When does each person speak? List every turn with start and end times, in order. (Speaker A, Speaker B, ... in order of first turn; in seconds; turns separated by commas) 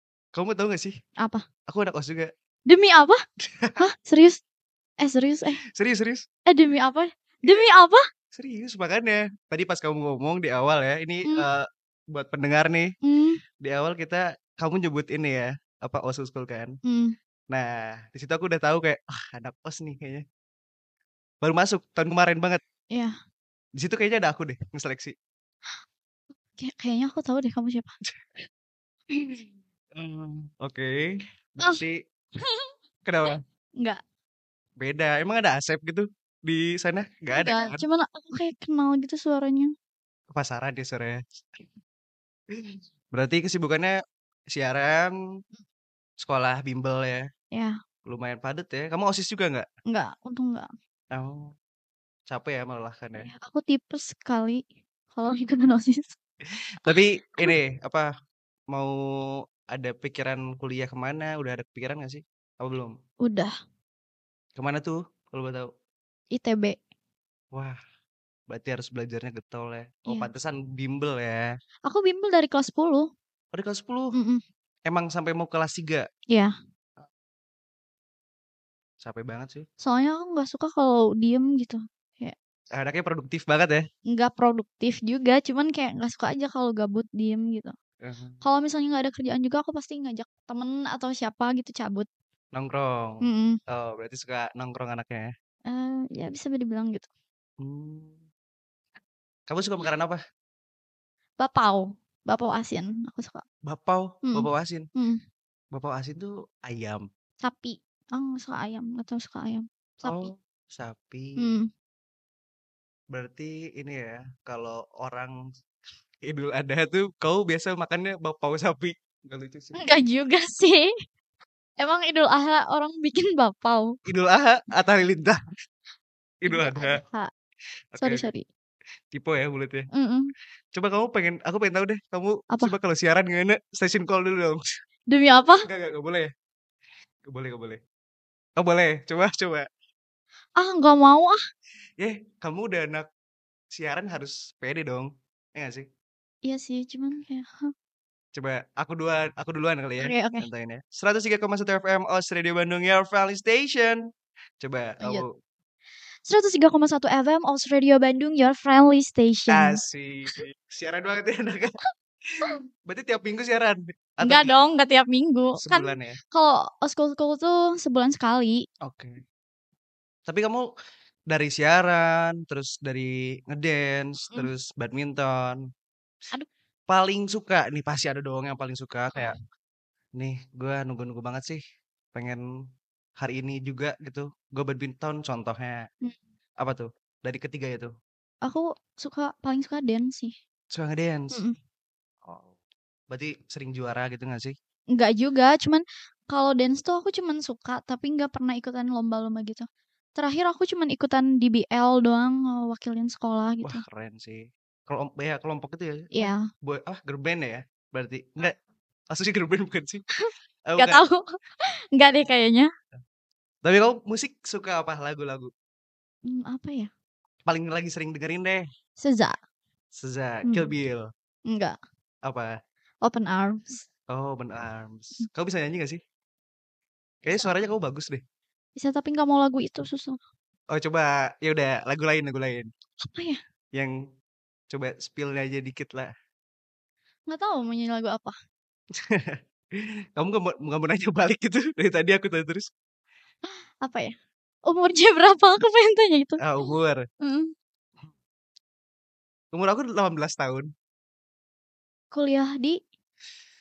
Speaker A: 0.3-0.9, Speaker B: 1.2-1.4, Speaker A: 1.7-2.3, Speaker B: 2.7-3.2, Speaker A: 3.5-3.9, Speaker B: 3.8-4.4, Speaker B: 5.0-5.6, Speaker A: 5.7-6.2, Speaker B: 6.5-8.0, Speaker A: 8.3-12.9, Speaker B: 13.0-13.4, Speaker A: 13.6-16.7, Speaker B: 16.8-17.1, Speaker A: 17.5-20.2, Speaker A: 21.4-22.6, Speaker A: 23.8-25.1, Speaker B: 26.6-27.9, Speaker A: 30.0-32.0, Speaker B: 32.4-32.7, Speaker A: 33.0-33.4, Speaker A: 34.8-37.8, Speaker B: 37.3-39.7, Speaker A: 40.3-41.2, Speaker A: 42.5-43.9, Speaker A: 44.5-45.1, Speaker A: 46.2-47.2, Speaker A: 48.0-49.6, Speaker B: 49.9-50.7, Speaker A: 51.1-51.5, Speaker A: 52.3-53.3, Speaker B: 53.2-56.2, Speaker A: 56.8-58.1, Speaker B: 56.9-57.5, Speaker A: 58.7-62.9, Speaker B: 63.2-63.5, Speaker A: 64.5-65.7, Speaker B: 66.3-66.8, Speaker A: 68.5-71.5, Speaker B: 71.9-73.0, Speaker A: 73.5-74.1, Speaker B: 74.1-74.4, Speaker A: 74.9-76.0, Speaker A: 79.0-79.7, Speaker B: 79.8-82.3, Speaker A: 82.7-83.8, Speaker B: 84.1-87.7, Speaker A: 88.0-88.4, Speaker B: 88.4-92.1, Speaker A: 92.5-95.3, Speaker B: 93.2-93.6, Speaker B: 95.7-97.1, Speaker A: 97.6-98.2, Speaker A: 99.5-100.2, Speaker B: 101.4-103.4, Speaker A: 103.7-104.9, Speaker B: 104.3-105.2, Speaker A: 105.7-107.0, Speaker B: 107.4-110.3, Speaker A: 110.0-111.5, Speaker B: 111.4-111.7, Speaker A: 113.1-115.3, Speaker A: 116.2-119.8, Speaker B: 119.7-120.9, Speaker B: 121.8-124.0, Speaker A: 124.0-125.4, Speaker A: 126.4-127.0, Speaker B: 126.5-127.3, Speaker A: 127.9-128.3, Speaker B: 128.0-128.4, Speaker A: 129.1-129.9, Speaker B: 129.9-130.3, Speaker A: 130.7-134.6, Speaker B: 132.5-132.7, Speaker B: 135.1-135.7, Speaker A: 135.6-136.3, Speaker A: 137.3-137.8, Speaker A: 138.6-139.7, Speaker B: 140.6-141.4, Speaker A: 142.0-143.1, Speaker A: 143.7-145.9, Speaker B: 146.4-147.7, Speaker A: 148.3-154.0, Speaker B: 150.0-150.4, Speaker A: 154.6-155.3, Speaker B: 155.0-155.2, Speaker B: 156.2-159.8, Speaker A: 159.5-161.7, Speaker A: 162.9-164.5, Speaker B: 164.2-168.6, Speaker A: 165.6-166.2, Speaker A: 168.8-169.2, Speaker A: 170.3-170.7, Speaker A: 171.3-175.6, Speaker A: 176.9-179.3, Speaker B: 179.1-179.4, Speaker A: 180.2-181.6, Speaker A: 182.1-182.4, Speaker A: 183.2-185.8, Speaker A: 186.6-187.9, Speaker B: 188.4-190.3, Speaker A: 190.7-191.4, Speaker A: 192.2-192.6, Speaker A: 193.1-194.5, Speaker B: 194.9-203.8, Speaker A: 203.6-208.5, Speaker B: 206.1-206.4, Speaker A: 209.1-210.0, Speaker A: 210.7-211.0, Speaker B: 210.8-211.3, Speaker B: 211.9-212.7, Speaker A: 213.6-215.5, Speaker B: 216.3-216.9, Speaker A: 217.5-218.7, Speaker B: 219.0-219.3, Speaker A: 220.0-221.1, Speaker B: 220.4-220.7, Speaker B: 221.5-221.8, Speaker A: 222.2-222.5, Speaker B: 223.0-223.8, Speaker A: 224.1-226.0, Speaker A: 227.2-228.2, Speaker B: 228.8-230.2, Speaker A: 230.7-232.7, Speaker B: 233.0-233.4, Speaker A: 234.7-236.1, Speaker B: 237.3-238.3, Speaker A: 239.0-242.7, Speaker B: 243.8-244.1, Speaker B: 244.7-246.4, Speaker A: 246.4-247.0, Speaker B: 247.2-247.5, Speaker A: 249.5-250.7, Speaker B: 252.1-252.8